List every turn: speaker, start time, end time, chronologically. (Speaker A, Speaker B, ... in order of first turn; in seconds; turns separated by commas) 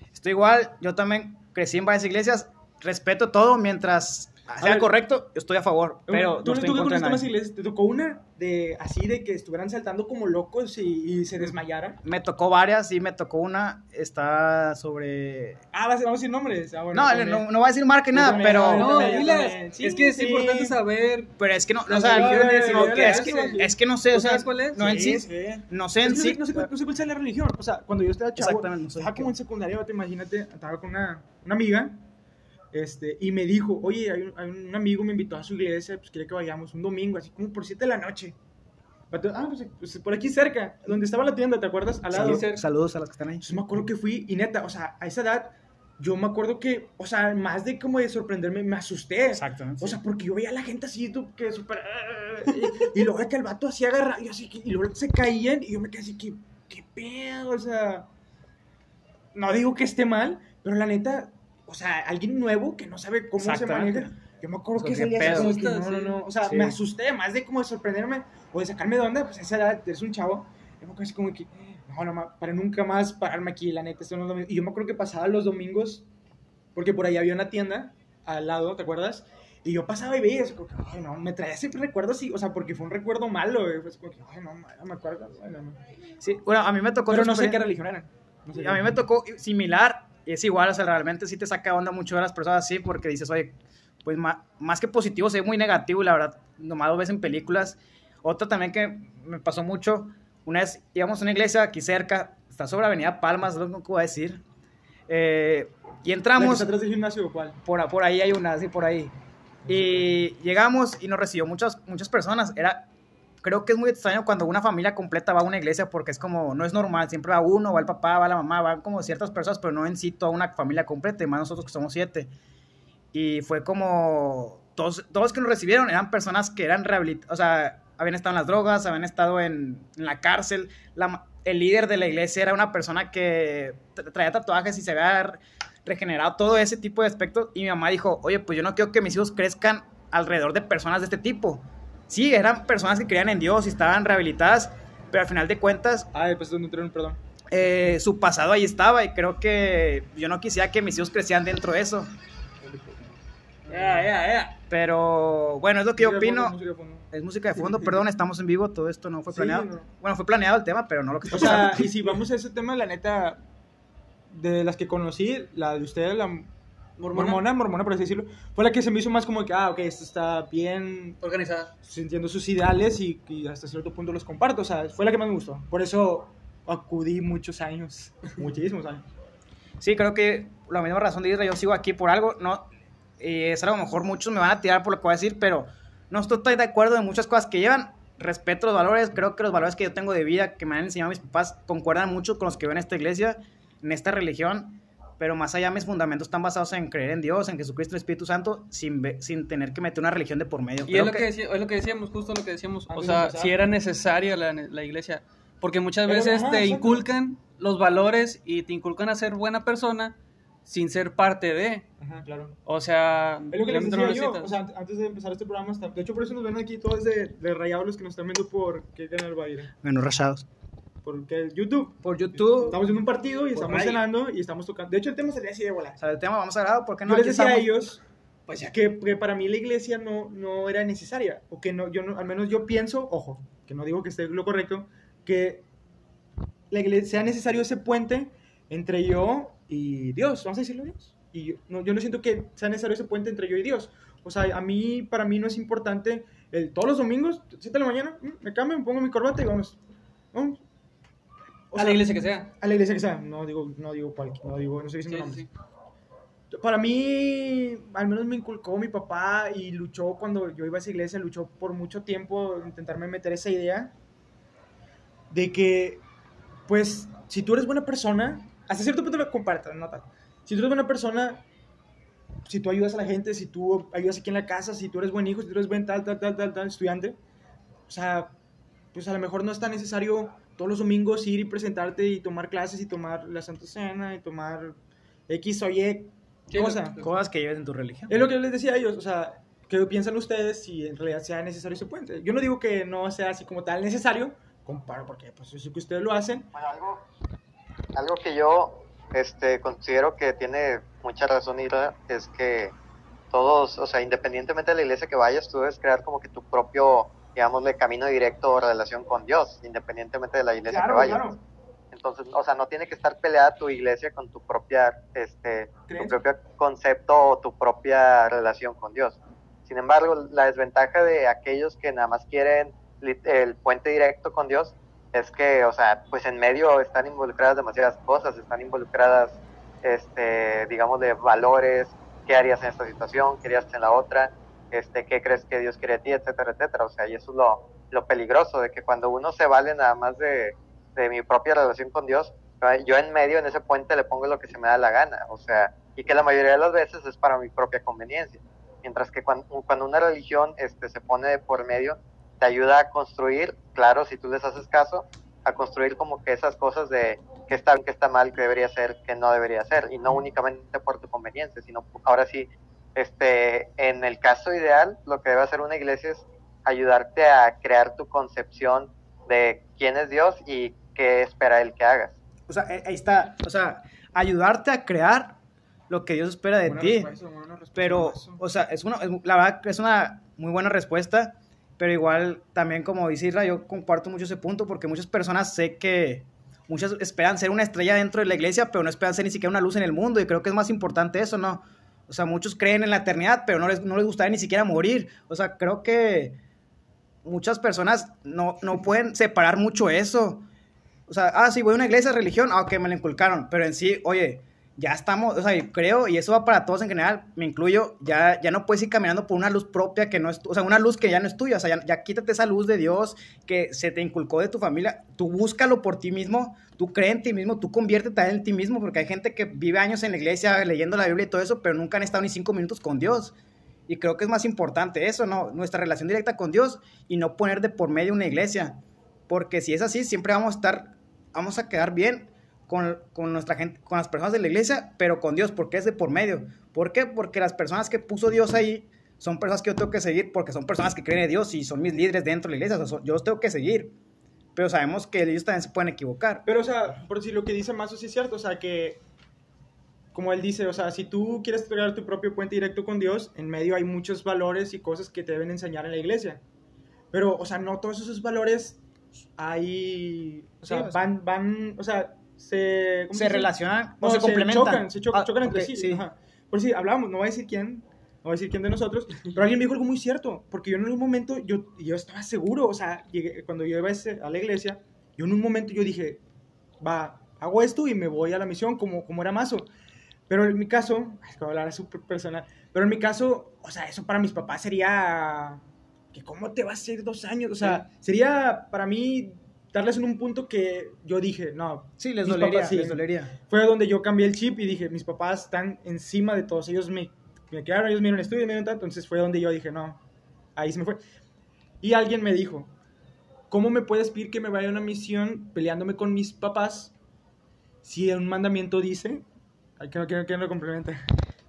Speaker A: 0.1-7.2, Speaker B: 4.6-4.9, Speaker B: 6.1-12.0, Speaker A: 12.0-15.6, Speaker B: 15.7-17.4, Speaker A: 16.9-19.2, Speaker B: 18.1-20.8, Speaker C: 18.3-21.3, Speaker A: 21.4-26.7, Speaker B: 21.9-23.7, Speaker C: 22.1-23.6, Speaker C: 24.1-24.9, Speaker B: 24.8-32.0, Speaker A: 28.4-29.3, Speaker B: 32.7-38.3, Speaker B: 39.1-42.4, Speaker C: 42.1-42.6, Speaker A: 42.1-43.6, Speaker B: 43.4-58.1, Speaker A: 49.3-50.0, Speaker B: 59.3-76.0, Speaker A: 63.4-64.1, Speaker A: 64.8-65.6, Speaker C: 65.2-66.2, Speaker A: 66.5-66.8, Speaker B: 76.7-85.8, Speaker A: 86.2-87.6, Speaker B: 87.1-89.0, Speaker A: 88.5-104.4, Speaker A: 105.1-106.7, Speaker B: 106.3-107.6, Speaker A: 107.6-109.1, Speaker A: 109.7-112.9, Speaker A: 113.4-122.3, Speaker A: 123.1-146.1, Speaker B: 146.1-147.2, Speaker A: 147.5-152.1, Speaker B: 152.6-153.1, Speaker B: 153.7-154.1, Speaker C: 153.7-154.6, Speaker A: 154.7-156.6, Speaker B: 156.0-157.1, Speaker A: 157.1-161.9, Speaker B: 157.6-158.0, Speaker B: 159.3-159.9, Speaker B: 161.3-163.4, Speaker B: 164.3-166.5, Speaker C: 167.0-167.4, Speaker B: 167.1-171.2, Speaker C: 171.2-171.7, Speaker B: 171.8-179.0, Speaker A: 179.8-182.7, Speaker A: 183.2-201.3, Speaker C: 200.9-211.9, Speaker B: 202.9-203.6, Speaker B: 206.1-207.1, Speaker B: 212.0-212.6, Speaker C: 212.7-214.5, Speaker B: 213.5-219.7, Speaker A: 219.8-220.4, Speaker B: 221.0-226.0, Speaker A: 222.0-222.8, Speaker C: 223.6-224.0, Speaker A: 223.6-223.9, Speaker A: 226.0-227.8, Speaker B: 227.1-235.6, Speaker B: 236.7-249.8, Speaker B: 250.3-250.6, Speaker B: 251.7-255.5, Speaker C: 251.7-252.5, Speaker C: 255.1-255.5, Speaker B: 256.5-263.9, Speaker B: 265.3-266.0, Speaker B: 266.7-271.4, Speaker B: 272.4-277.2, Speaker B: 277.9-278.3, Speaker B: 278.9-284.8, Speaker B: 285.3-287.0, Speaker C: 286.5-287.1, Speaker A: 287.0-288.3, Speaker B: 288.1-296.5, Speaker D: 296.5-297.0, Speaker D: 297.9-302.7, Speaker D: 303.3-311.3, Speaker B: 310.7-311.4, Speaker D: 311.9-372.1, Speaker B: 315.9-316.2, Speaker A: 372.5-375.4, Speaker A: 375.9-377.1, Speaker B: 376.6-378.4, Speaker A: 377.7-396.4, Speaker A: 397.2-400.4, Speaker A: 401.1-423.3, Speaker A: 423.9-443.9, Speaker A: 444.5-446.4, Speaker B: 446.4-449.0, Speaker B: 450.1-456.4, Speaker B: 457.1-458.8, Speaker B: 459.4-476.2, Speaker A: 460.7-461.1, Speaker A: 463.1-466.0, Speaker B: 476.8-479.7, Speaker B: 480.3-500.0, Speaker A: 492.0-493.3, Speaker B: 500.6-501.0, Speaker B: 501.8-502.7, Speaker B: 503.5-506.9, Speaker B: 507.8-509.2, Speaker B: 509.8-511.0